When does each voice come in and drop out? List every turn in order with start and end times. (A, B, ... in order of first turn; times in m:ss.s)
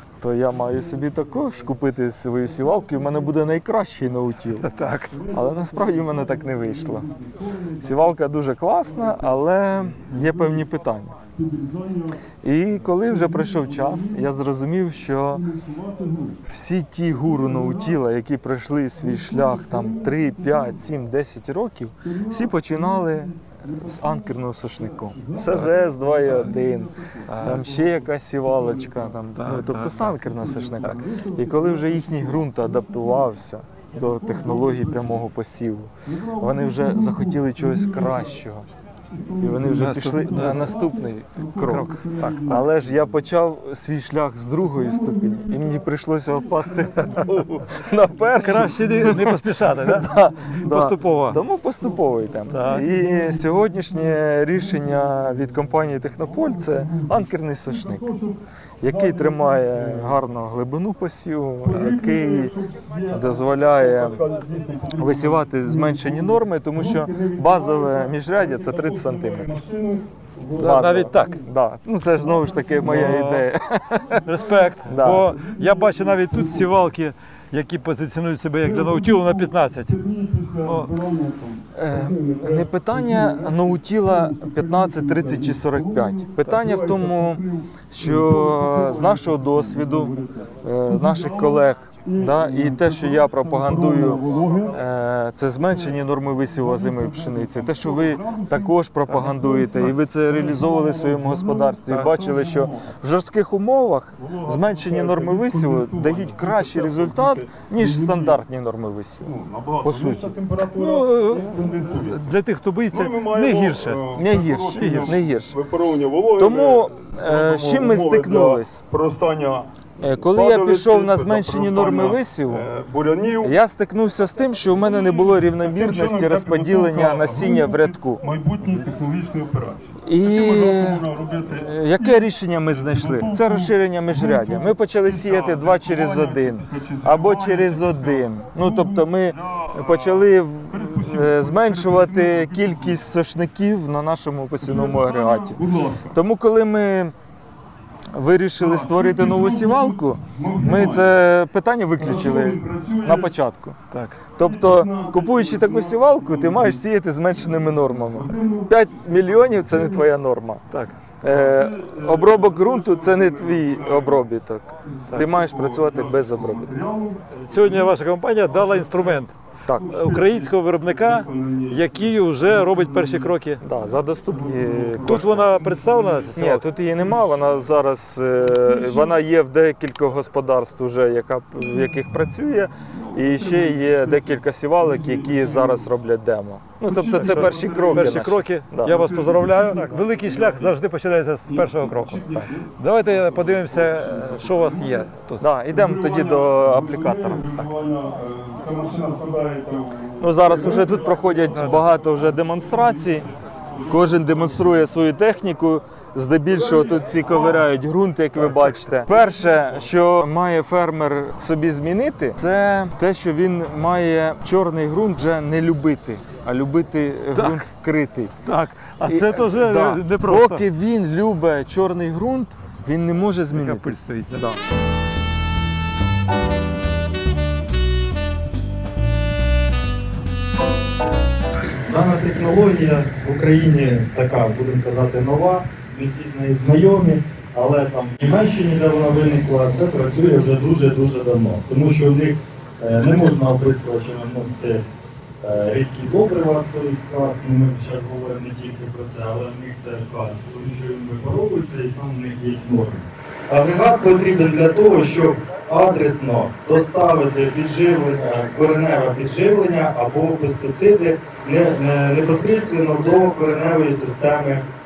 0:00.2-0:04.7 A
0:00.6-0:01.2 B
0:02.7-0:03.3 B
0:04.6-0:05.2 C
0:05.1-0:08.2 B
0:05.3-0:07.1 A
0:07.8-0:11.2 A
0:08.9-0:09.4 B
0:10.3-0:10.6 B
0:11.4-0:12.2 B
0:12.4-0:15.5 A
0:12.8-0:14.3 B
0:15.3-0:16.4 B
0:16.4-0:38.7 A
0:17.2-0:18.0 B
0:19.0-0:20.9 B
0:22.0-0:33.3 B
0:27.3-0:27.7 C
0:29.4-0:30.2 C
0:34.0-0:35.2 B
0:36.1-0:38.4 B
0:39.1-0:43.1 B
0:39.4-0:41.9 A
0:39.8-0:40.7 C
0:41.7-0:42.4 C
0:42.5-0:58.1 A
0:44.6-0:49.2 B
0:48.4-0:51.4 C
0:51.8-0:55.2 B
0:52.5-0:52.9 C
0:56.2-1:00.2 B
0:58.8-1:02.6 A
1:01.6-1:11.4 B
1:03.1-1:04.2 A
1:05.0-1:09.5 A
1:10.6-1:11.4 C
1:10.6-1:14.3 A
1:12.1-1:13.3 B
1:12.8-1:13.5 C
1:14.3-1:20.0 C
1:14.3-1:16.8 B
1:14.9-1:15.3 A
1:18.6-1:34.8 B
1:20.6-1:20.9 C
1:21.7-1:50.3 A
1:35.7-1:42.9 B
1:44.2-1:48.4 B
1:49.2-1:52.3 B
1:50.7-1:54.0 C
1:52.9-2:03.6 B
1:54.1-1:55.6 A
1:54.7-1:55.2 C
1:56.4-1:58.8 A
2:00.0-2:02.7 A
2:03.4-2:08.2 A
2:04.6-2:23.1 B
2:10.0-2:27.2 A
2:24.6-2:26.2 B
2:28.1-2:33.8 A
2:28.6-2:31.2 B
2:32.0-2:33.3 B
2:33.9-2:34.2 C
2:34.4-2:40.6 A
2:34.4-2:40.2 B
2:40.7-2:41.0 C
2:41.2-2:46.8 A
2:41.2-2:44.3 B
2:44.8-2:53.4 B
2:47.3-2:49.4 C
2:49.7-2:49.9 A
2:49.9-2:53.6 C
2:53.6-2:55.5 A
2:54.2-2:56.4 B
2:55.0-2:56.7 C
2:56.3-3:09.0 A
2:57.0-2:57.6 B
2:58.5-2:59.2 B
3:02.9-3:05.9 B
3:06.8-3:08.2 B
3:07.2-3:15.5 C
3:08.8-3:10.8 B
3:11.5-3:15.1 B
3:15.4-3:17.4 A
3:15.6-3:23.2 B
3:20.2-3:23.3 A
3:21.5-3:21.8 C
3:23.8-3:24.9 B
3:23.9-3:38.4 A
3:26.5-3:27.7 B
3:28.4-3:28.8 C
3:29.1-3:29.8 B
3:37.4-3:37.7 C
3:38.4-3:40.7 C
3:39.0-3:44.6 A
3:43.5-3:44.4 C
3:51.8-4:04.8 D
4:05.4-4:24.7 D